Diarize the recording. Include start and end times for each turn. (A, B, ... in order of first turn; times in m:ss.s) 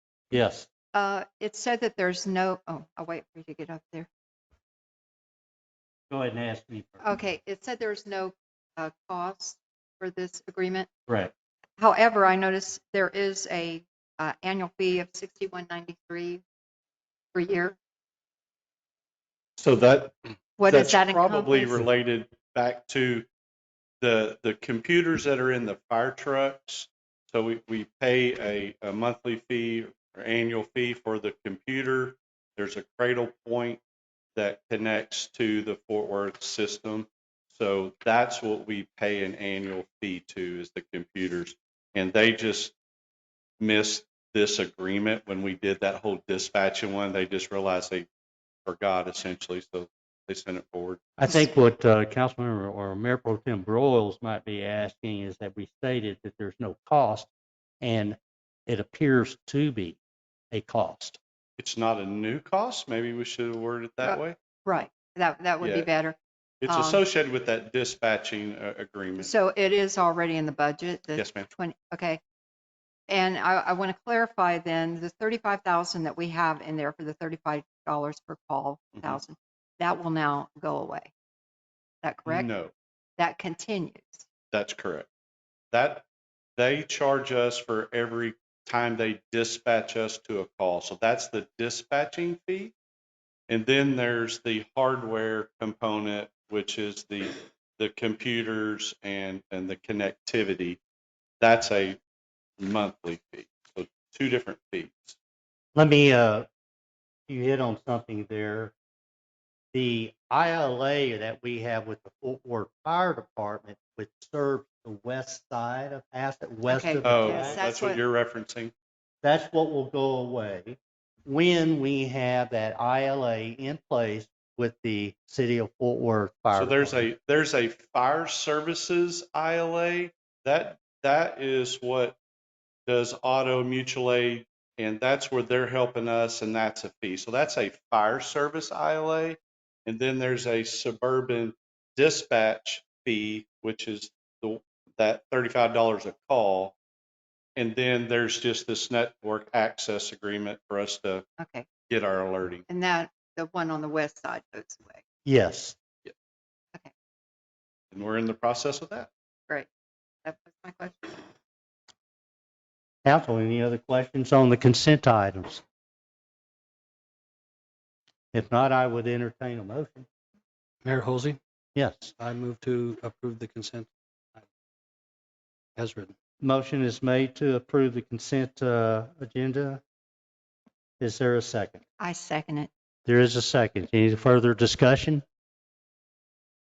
0:00.3-0:00.7 A
0:00.9-0:04.1 B
0:06.1-0:07.0 A
0:07.0-0:10.9 B
0:11.8-0:16.4 B
0:17.3-0:17.8 B
0:19.6-0:23.3 C
0:20.6-0:21.8 B
0:24.0-0:33.8 C
0:34.4-0:42.8 C
0:43.6-0:48.1 C
0:48.6-0:51.1 C
0:51.2-0:57.3 A
0:57.8-1:00.0 A
1:00.5-1:01.2 A
1:01.6-1:04.4 C
1:04.0-1:06.2 B
1:05.6-1:05.9 C
1:06.6-1:09.3 C
1:06.7-1:07.0 B
1:09.2-1:12.2 B
1:11.2-1:11.5 C
1:13.1-1:21.1 B
1:22.0-1:22.5 B
1:22.3-1:22.7 C
1:23.2-1:24.3 B
1:24.5-1:25.1 C
1:25.7-1:26.0 C
1:26.6-1:32.7 C
1:33.5-1:40.8 C
1:41.4-1:42.0 C
1:42.6-1:45.2 C
1:45.8-1:46.5 A
1:47.3-1:48.7 A
1:49.7-1:57.6 A
1:56.7-1:58.0 B
1:57.0-1:58.7 C
1:59.2-2:07.0 A
2:06.5-2:12.2 C
2:12.9-2:26.8 C
2:27.6-2:31.3 C
2:31.4-2:31.7 B
2:31.9-2:32.6 C
2:32.7-2:35.0 B
2:35.2-2:35.8 A
2:37.9-2:39.1 C
2:40.2-2:41.2 B
2:43.0-2:45.6 A
2:48.3-2:50.1 A
2:50.8-2:51.4 D
2:51.8-2:52.1 A
2:52.2-2:54.5 D
2:55.8-2:56.1 D
2:56.4-2:59.8 A
3:01.0-3:01.8 A
3:02.0-3:02.7 B
3:03.1-3:05.2 A